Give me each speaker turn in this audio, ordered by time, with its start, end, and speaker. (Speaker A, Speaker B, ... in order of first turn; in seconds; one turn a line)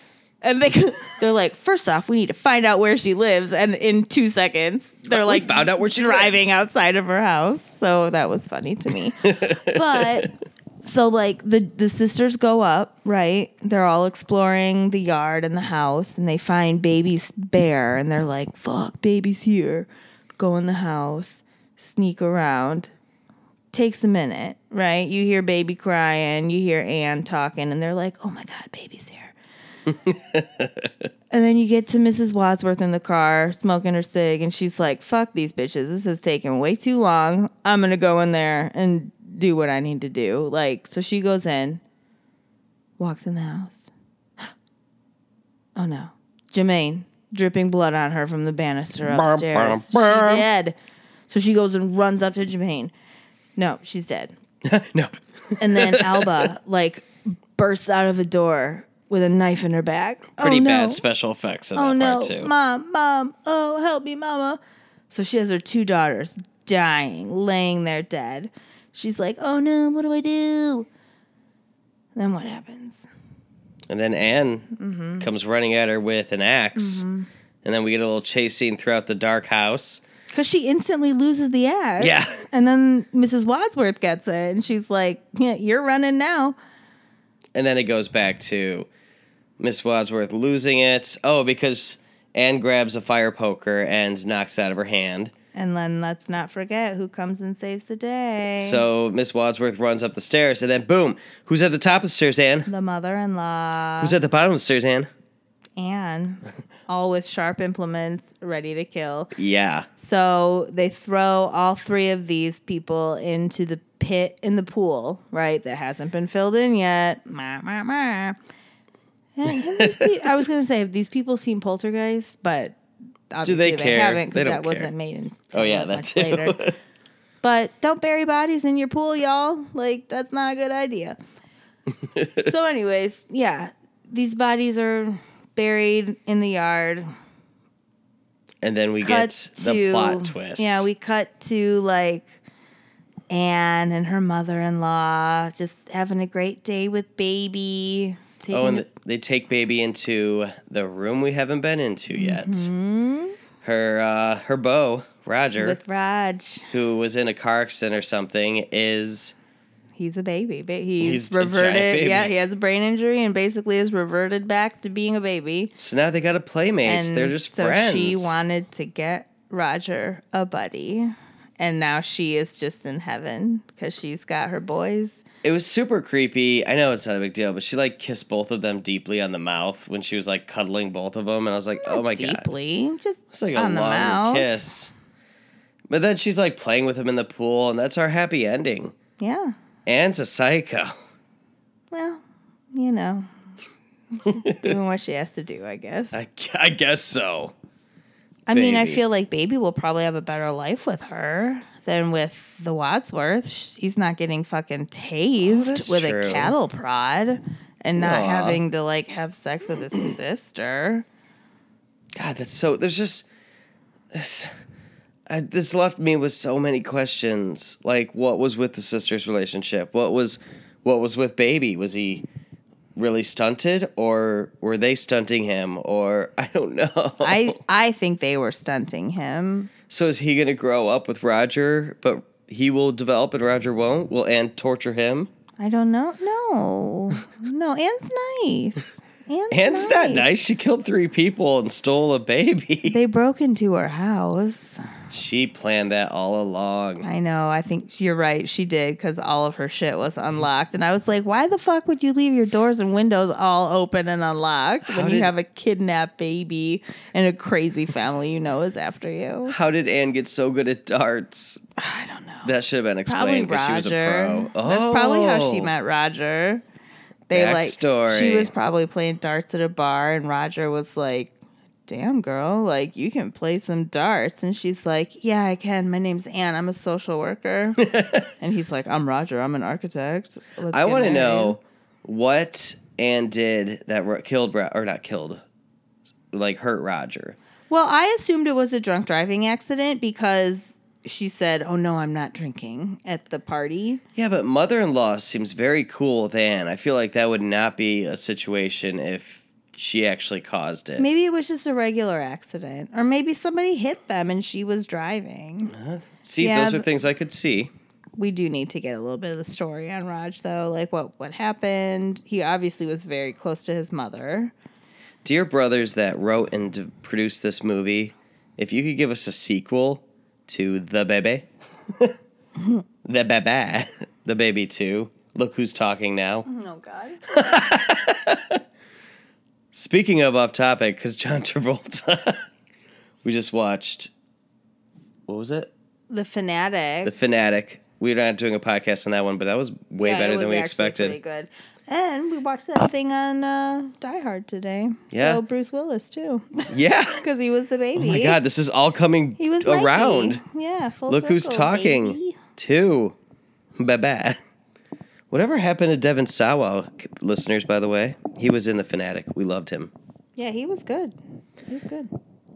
Speaker A: 0.4-22.9
Speaker B: 5.1-6.6
Speaker B: 9.2-10.2
Speaker A: 23.7-29.4
Speaker B: 29.9-30.9
Speaker A: 31.3-41.8
Speaker A: 43.0-43.9
Speaker A: 45.8-50.8
Speaker B: 49.0-50.4
Speaker A: 51.3-52.9
Speaker A: 53.6-54.3
Speaker B: 54.6-56.5
Speaker A: 55.6-61.0
Speaker B: 60.4-62.5
Speaker A: 61.7-64.6
Speaker A: 65.1-70.9
Speaker A: 72.2-73.0
Speaker B: 73.9-77.0
Speaker A: 74.8-75.3
Speaker A: 76.8-77.3
Speaker B: 77.6-80.0
Speaker A: 80.3-86.5
Speaker B: 82.0-82.4
Speaker B: 87.5-88.9
Speaker B: 89.6-95.3
Speaker A: 95.5-98.8
Speaker B: 98.6-102.7
Speaker A: 102.7-104.2
Speaker B: 104.0-105.1
Speaker A: 105.8-109.3
Speaker B: 109.4-109.9
Speaker A: 110.0-118.4
Speaker A: 119.4-122.8
Speaker B: 119.5-120.2
Speaker A: 123.3-126.6
Speaker B: 123.4-124.9
Speaker B: 125.5-126.8
Speaker A: 127.4-131.2
Speaker B: 132.1-132.5
Speaker A: 132.4-137.1
Speaker B: 138.6-140.9
Speaker A: 139.0-142.3
Speaker A: 143.3-148.9
Speaker B: 148.5-152.7
Speaker A: 152.1-153.4
Speaker B: 153.6-155.8
Speaker A: 155.6-156.7
Speaker B: 156.7-159.4
Speaker A: 159.9-165.7
Speaker B: 161.0-162.3
Speaker B: 165.8-168.4
Speaker A: 166.8-175.2
Speaker B: 175.4-182.5
Speaker A: 181.8-184.5
Speaker B: 183.3-184.9
Speaker B: 185.9-188.9
Speaker A: 189.2-189.5
Speaker B: 189.9-190.9
Speaker A: 191.9-192.2
Speaker A: 192.7-193.3
Speaker A: 194.1-196.2
Speaker B: 194.2-194.8
Speaker B: 196.1-197.5
Speaker A: 198.5-211.0
Speaker B: 198.5-199.0
Speaker B: 205.4-206.5
Speaker B: 207.9-208.6
Speaker B: 212.2-213.3
Speaker B: 214.1-214.5
Speaker B: 215.3-222.2
Speaker B: 222.9-227.6
Speaker A: 227.2-229.7
Speaker B: 229.9-235.3
Speaker A: 235.6-240.3
Speaker B: 239.5-243.0
Speaker A: 242.8-244.8
Speaker B: 245.1-247.1
Speaker A: 247.0-259.6
Speaker B: 254.8-255.3
Speaker B: 259.5-261.6
Speaker A: 261.8-262.5
Speaker B: 262.4-265.7
Speaker A: 263.1-266.6
Speaker A: 267.3-271.3
Speaker B: 267.3-268.5
Speaker A: 271.9-281.6
Speaker B: 277.8-278.2
Speaker B: 280.7-285.4
Speaker B: 286.3-287.4
Speaker A: 287.7-294.0
Speaker B: 294.1-301.1
Speaker A: 301.0-305.7
Speaker B: 305.7-307.7
Speaker A: 306.4-306.9
Speaker A: 308.2-314.5
Speaker B: 315.2-322.2
Speaker B: 323.0-326.5
Speaker A: 326.5-327.2
Speaker B: 327.3-328.6
Speaker B: 329.7-332.4
Speaker B: 333.2-334.1
Speaker B: 335.3-335.7
Speaker A: 336.1-337.1
Speaker B: 337.0-341.2
Speaker A: 340.0-348.4
Speaker B: 345.1-345.4
Speaker B: 346.7-347.2
Speaker B: 347.9-350.4
Speaker A: 349.4-352.4
Speaker B: 351.1-353.1
Speaker B: 353.8-354.4
Speaker B: 355.3-359.9
Speaker A: 360.4-361.1
Speaker A: 361.7-362.1